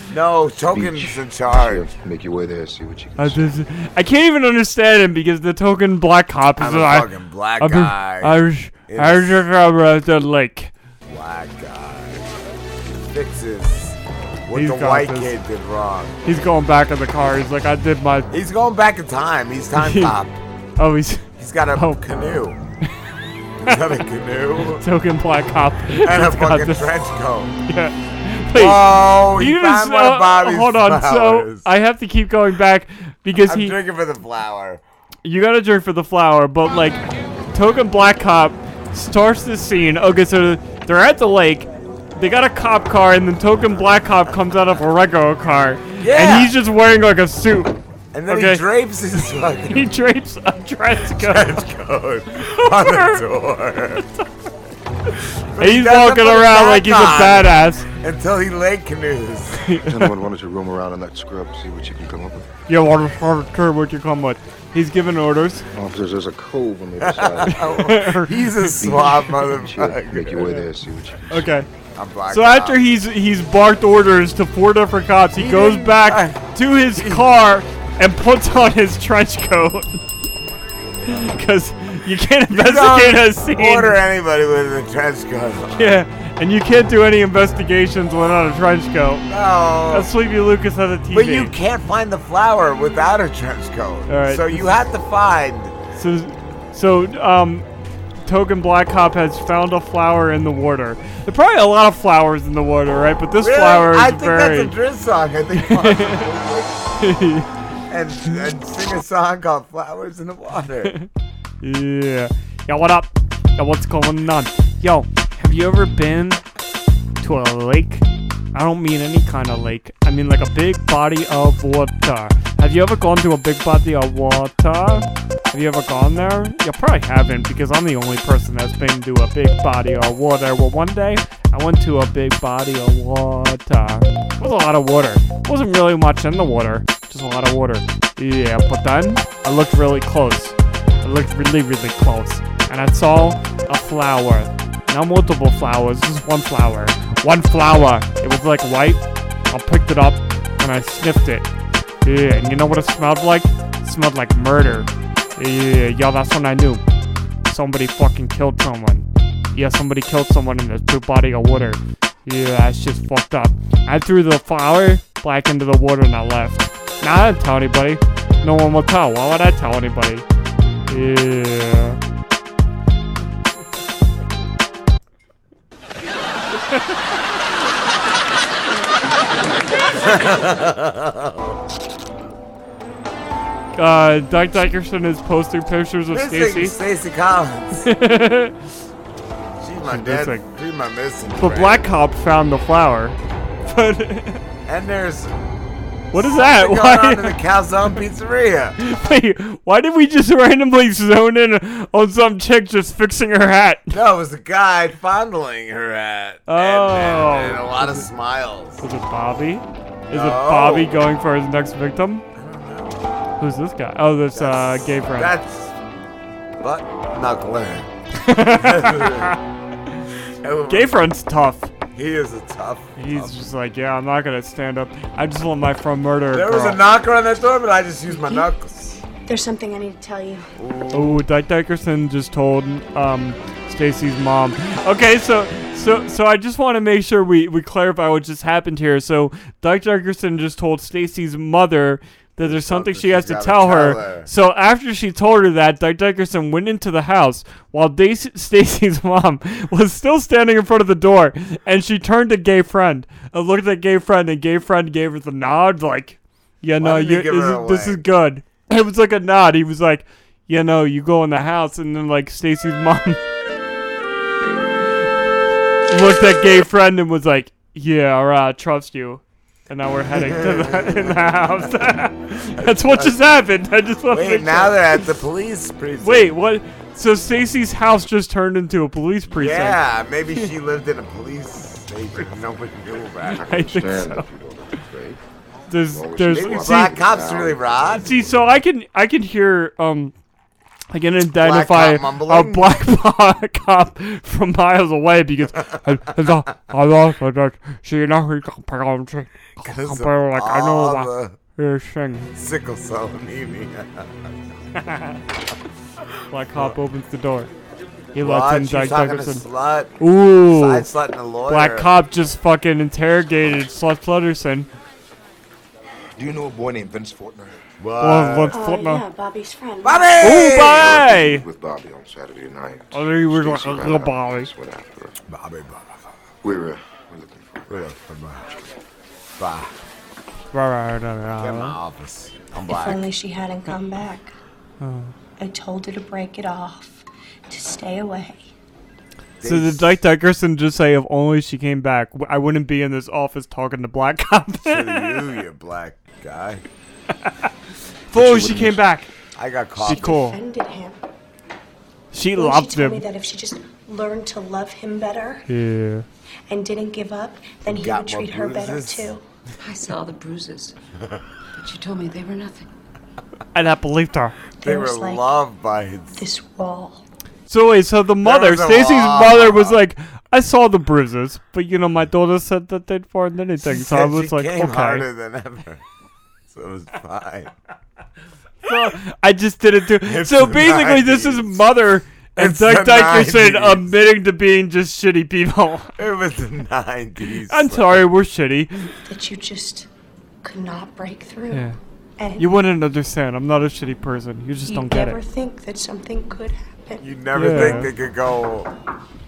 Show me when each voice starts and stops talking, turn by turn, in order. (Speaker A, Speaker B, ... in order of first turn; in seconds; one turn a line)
Speaker A: 0.1-1.9
Speaker B: 0.6-3.6
Speaker C: 3.2-10.7
Speaker A: 6.6-8.4
Speaker A: 8.9-9.5
Speaker A: 11.1-12.2
Speaker A: 12.9-16.2
Speaker C: 14.5-15.3
Speaker C: 16.2-18.3
Speaker A: 18.3-20.4
Speaker C: 19.8-20.2
Speaker C: 20.8-22.0
Speaker A: 21.4-22.6
Speaker A: 23.6-24.8
Speaker C: 24.6-26.9
Speaker A: 25.9-27.6
Speaker C: 27.6-33.8
Speaker A: 28.5-31.7
Speaker A: 33.4-34.8
Speaker C: 35.2-47.7
Speaker A: 46.0-46.5
Speaker A: 48.1-49.9
Speaker C: 48.3-48.6
Speaker C: 49.7-51.6
Speaker A: 51.1-54.0
Speaker C: 52.3-53.2
Speaker A: 55.5-59.8
Speaker C: 55.6-57.9
Speaker C: 59.6-60.1
Speaker B: 59.8-62.5
Speaker C: 62.7-65.7
Speaker B: 65.7-67.7
Speaker A: 67.0-70.5
Speaker C: 67.5-69.2
Speaker B: 68.6-71.5
Speaker C: 70.4-70.7
Speaker C: 71.3-71.7
Speaker A: 71.9-72.8
Speaker C: 72.3-80.0
Speaker A: 75.3-77.3
Speaker C: 81.1-84.0
Speaker A: 82.5-86.0
Speaker C: 85.7-89.3
Speaker A: 89.3-90.1
Speaker C: 89.9-91.5
Speaker A: 91.1-95.7
Speaker C: 94.1-94.7
Speaker C: 95.9-97.7
Speaker C: 98.2-104.7
Speaker A: 103.4-106.8
Speaker C: 105.5-106.3
Speaker C: 107.0-107.5
Speaker A: 107.9-110.9
Speaker C: 111.6-116.4
Speaker C: 117.2-151.5
Speaker C: 152.0-156.8
Speaker C: 157.4-170.2
Speaker C: 170.9-172.0
Speaker A: 179.9-181.6
Speaker C: 183.8-186.8
Speaker A: 186.1-187.9
Speaker C: 187.8-188.6
Speaker A: 189.6-191.9
Speaker C: 189.8-190.4
Speaker C: 191.4-194.4
Speaker A: 194.7-195.4
Speaker C: 196.1-197.4
Speaker A: 196.1-198.8
Speaker C: 198.8-203.9
Speaker A: 203.9-208.8
Speaker C: 206.5-208.1
Speaker C: 208.8-212.2
Speaker A: 210.1-210.9
Speaker A: 212.3-213.0
Speaker C: 213.4-215.3
Speaker A: 214.3-215.7
Speaker A: 216.6-219.3
Speaker C: 218.2-219.4
Speaker A: 220.4-221.0
Speaker C: 220.7-221.7
Speaker A: 221.9-223.3
Speaker C: 223.0-226.8
Speaker A: 226.3-229.0
Speaker D: 229.2-230.5
Speaker A: 230.6-231.2
Speaker C: 230.9-263.2
Speaker A: 242.4-244.3
Speaker A: 256.8-258.0
Speaker C: 265.9-275.0
Speaker A: 270.1-271.7
Speaker A: 272.6-273.1
Speaker A: 274.1-276.3
Speaker C: 276.0-279.8
Speaker A: 279.3-283.5
Speaker C: 283.3-284.3
Speaker B: 283.3-285.2
Speaker C: 285.7-287.0
Speaker B: 285.8-287.8
Speaker A: 286.3-288.2
Speaker C: 287.9-290.1
Speaker C: 290.9-302.3
Speaker A: 291.3-292.9
Speaker A: 295.5-296.4
Speaker A: 299.6-301.4
Speaker A: 302.3-304.1
Speaker C: 304.8-305.2
Speaker C: 306.3-307.5
Speaker C: 308.1-309.4
Speaker A: 308.1-311.9
Speaker C: 310.0-310.9
Speaker C: 311.5-314.7
Speaker B: 316.1-317.6
Speaker A: 317.8-318.6
Speaker C: 318.0-319.0
Speaker D: 318.5-320.3
Speaker A: 319.8-321.0
Speaker C: 320.2-321.4
Speaker B: 320.3-325.1
Speaker C: 322.9-324.5
Speaker A: 325.3-326.0
Speaker B: 326.4-327.9
Speaker A: 327.7-328.6
Speaker A: 329.4-329.7
Speaker C: 330.5-331.8
Speaker A: 331.3-333.1
Speaker D: 332.7-334.3
Speaker C: 334.8-335.1
Speaker D: 335.4-338.5
Speaker A: 339.4-340.0
Speaker C: 339.4-345.2
Speaker A: 344.6-346.6
Speaker C: 348.1-349.1
Speaker B: 348.1-348.8
Speaker A: 349.3-350.2
Speaker C: 349.8-350.4
Speaker D: 349.8-351.0
Speaker C: 352.1-353.1
Speaker D: 352.3-355.4
Speaker C: 355.5-356.1
Speaker D: 356.5-359.2
Speaker A: 357.6-359.1
Speaker E: 359.6-360.7
Speaker E: 361.6-362.6
Speaker C: 363.5-364.4
Speaker D: 364.6-365.3
Speaker A: 364.6-366.2
Speaker D: 366.1-367.0
Speaker C: 367.5-375.1
Speaker A: 368.2-369.8
Speaker A: 373.6-375.8
Speaker A: 376.5-377.5
Speaker C: 378.6-385.9
Speaker A: 380.0-381.7
Speaker A: 382.4-383.9
Speaker A: 386.0-388.1
Speaker C: 387.5-388.7
Speaker D: 389.0-389.9
Speaker D: 390.4-392.5
Speaker C: 391.5-391.8
Speaker C: 392.4-395.2
Speaker D: 394.6-397.8
Speaker A: 397.0-398.7
Speaker C: 397.3-397.9